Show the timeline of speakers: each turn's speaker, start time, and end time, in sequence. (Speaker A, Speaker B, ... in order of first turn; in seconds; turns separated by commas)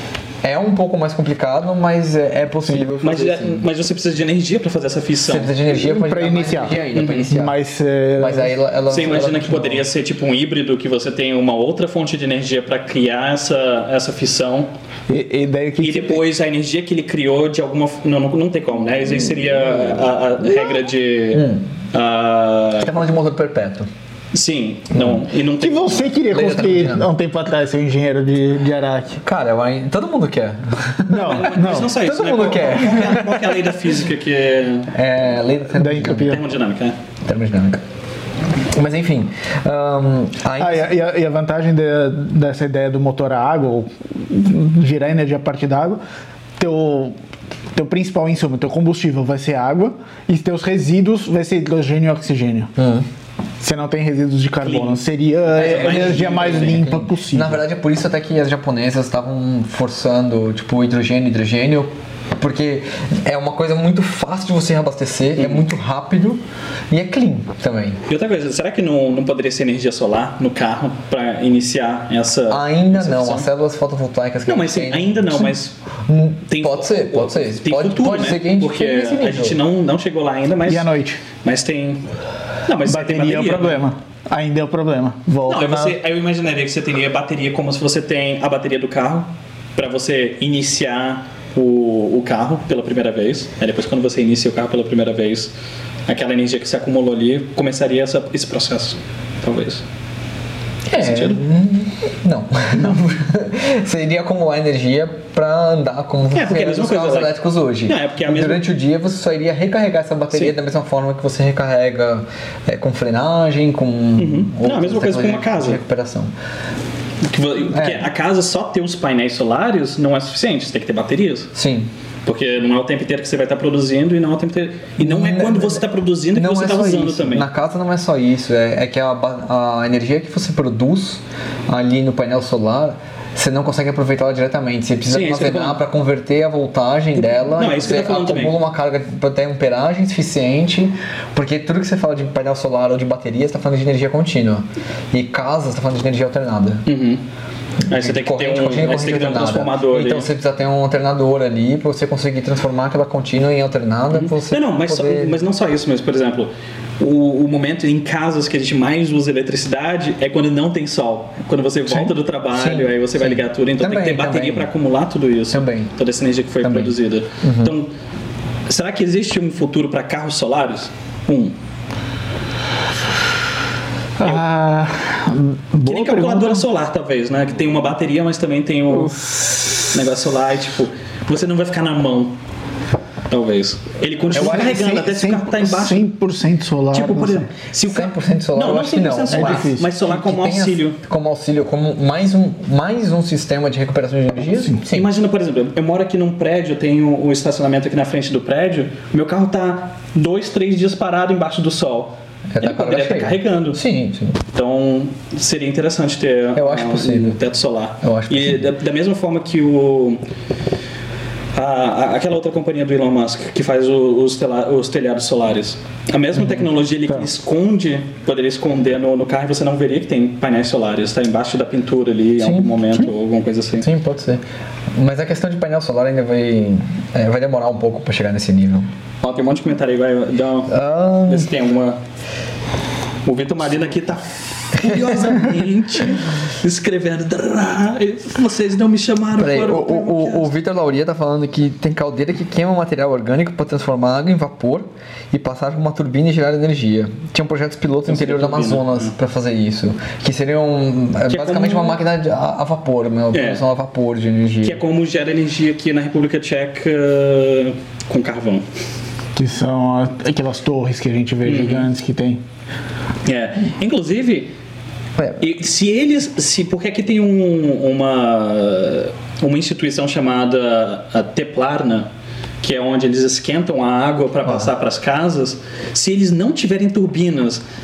Speaker A: 0.4-3.6, Speaker B: 3.0-5.5, Speaker A: 5.2-7.6, Speaker C: 5.7-8.6, Speaker B: 7.0-7.3, Speaker A: 8.2-9.9, Speaker B: 8.9-14.7, Speaker C: 15.1-16.2, Speaker B: 15.8-22.9, Speaker A: 21.3-21.6, Speaker A: 22.8-23.9, Speaker B: 24.3-26.6, Speaker A: 24.9-25.2, Speaker C: 25.6-29.2, Speaker A: 26.3-27.1, Speaker A: 29.2-33.7, Speaker C: 31.1-32.0, Speaker B: 31.2-34.9, Speaker A: 34.9-36.4, Speaker C: 35.7-36.4, Speaker B: 36.2-37.0, Speaker A: 37.2-37.8, Speaker A: 38.7-40.9, Speaker C: 40.6-46.0, Speaker C: 46.6-47.2, Speaker C: 47.7-52.7, Speaker A: 52.8-53.1, Speaker C: 53.6-57.6, Speaker B: 54.6-56.8, Speaker A: 55.6-68.0, Speaker B: 65.4-65.7, Speaker B: 68.1-73.5, Speaker A: 72.5-75.5, Speaker B: 74.5-75.7, Speaker A: 76.1-79.6, Speaker B: 76.5-80.9, Speaker C: 80.7-81.2, Speaker B: 81.4-82.0, Speaker B: 82.7-83.8, Speaker C: 82.8-86.0, Speaker B: 85.5-95.5, Speaker B: 96.1-99.8, Speaker A: 100.9-116.3, Speaker B: 101.0-101.4, Speaker B: 106.3-108.6, Speaker B: 114.2-115.8, Speaker B: 117.2-121.5, Speaker A: 117.7-118.1, Speaker A: 121.5-121.9, Speaker B: 122.2-127.5, Speaker A: 125.0-146.9, Speaker B: 135.1-135.8, Speaker B: 137.5-138.6, Speaker B: 146.9-147.2, Speaker B: 147.9-150.3, Speaker A: 147.9-155.4, Speaker B: 154.1-167.9, Speaker A: 161.9-164.7, Speaker A: 165.5-165.9, Speaker A: 166.6-167.7, Speaker B: 168.7-171.6, Speaker C: 174.2-176.6, Speaker B: 175.8-179.3, Speaker B: 179.8-182.4, Speaker B: 183.3-186.1, Speaker C: 184.3-187.5, Speaker A: 184.3-184.7, Speaker B: 186.9-191.0, Speaker A: 187.9-195.1, Speaker C: 189.3-189.9, Speaker B: 194.9-203.8, Speaker A: 202.5-204.4, Speaker B: 204.5-210.2, Speaker A: 206.6-207.4, Speaker A: 208.0-208.7, Speaker B: 211.6-223.9, Speaker A: 222.4-223.1, Speaker A: 223.8-224.4, Speaker A: 224.9-228.9, Speaker B: 229.2-232.0, Speaker A: 230.7-231.5, Speaker B: 233.2-240.5, Speaker A: 234.8-235.4, Speaker A: 239.4-254.8, Speaker B: 248.1-249.1, Speaker B: 251.3-252.0, Speaker B: 253.3-253.6, Speaker B: 254.6-258.6, Speaker C: 259.4-262.4, Speaker B: 261.4-261.9, Speaker B: 263.3-264.5, Speaker B: 265.4-272.1, Speaker B: 272.6-277.6